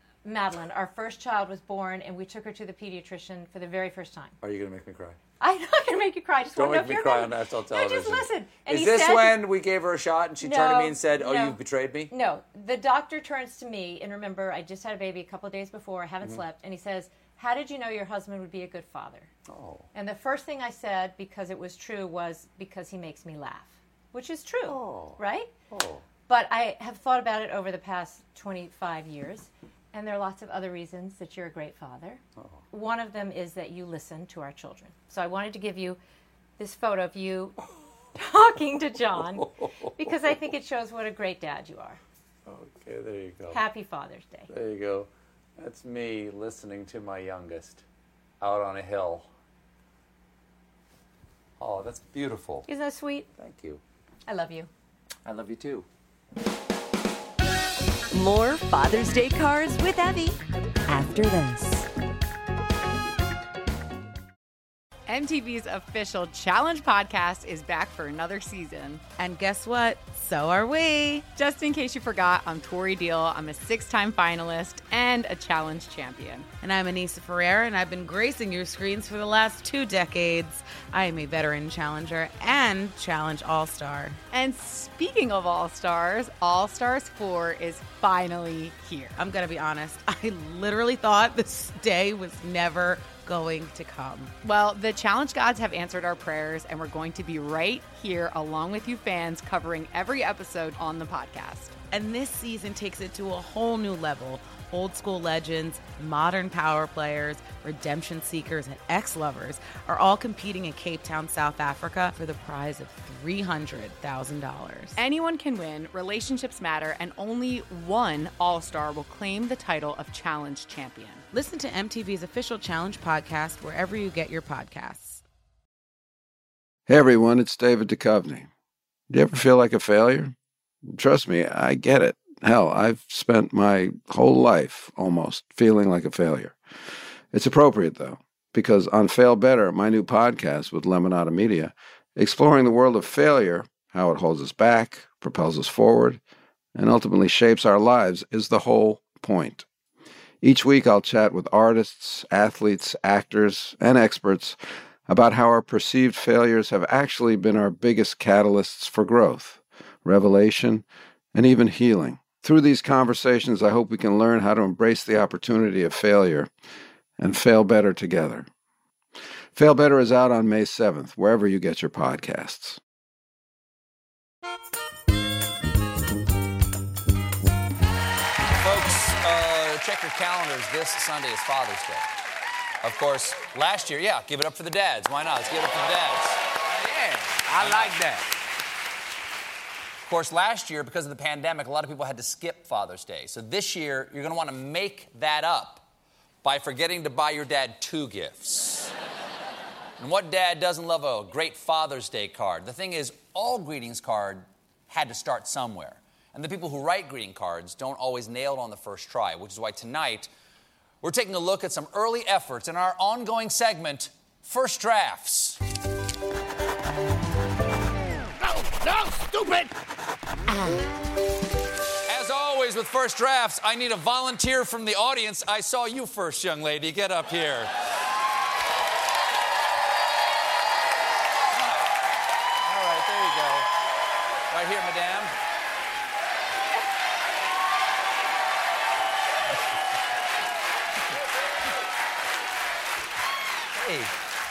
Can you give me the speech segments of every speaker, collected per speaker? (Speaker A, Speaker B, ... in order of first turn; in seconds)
Speaker A: 0.2-4.4, 5.4-9.4, 10.4-19.3, 19.9-25.5, 26.3-36.0, 36.6-37.6, 38.1-42.0, 43.5-44.5, 52.7-53.3, 54.3-54.7
Speaker B: 4.4-5.2, 6.6-12.1, 19.5-19.9, 24.7-26.0, 42.5-43.6, 44.5-47.8, 48.4-49.3, 51.6-52.7, 53.4-53.8, 55.2-55.9, 178.6-182.1, 182.8-188.3, 190.1-195.8, 196.4-198.9, 200.0-210.3, 211.0-215.6, 219.1-219.7, 222.1-227.7, 232.7-233.7, 234.5-235.3, 243.8-244.1
Speaker C: 58.1-61.9
Speaker D: 65.1-69.2, 71.3-76.6, 84.3-89.2, 94.4-101.8, 115.0-121.2
Speaker E: 69.1-71.3, 76.5-84.2, 89.1-94.3, 101.8-115.0, 121.3-125.2
Speaker F: 126.9-128.5, 129.1-130.3, 130.9-136.6, 137.3-146.2, 146.8-149.7, 150.4-166.5, 167.2-168.5, 169.6-172.8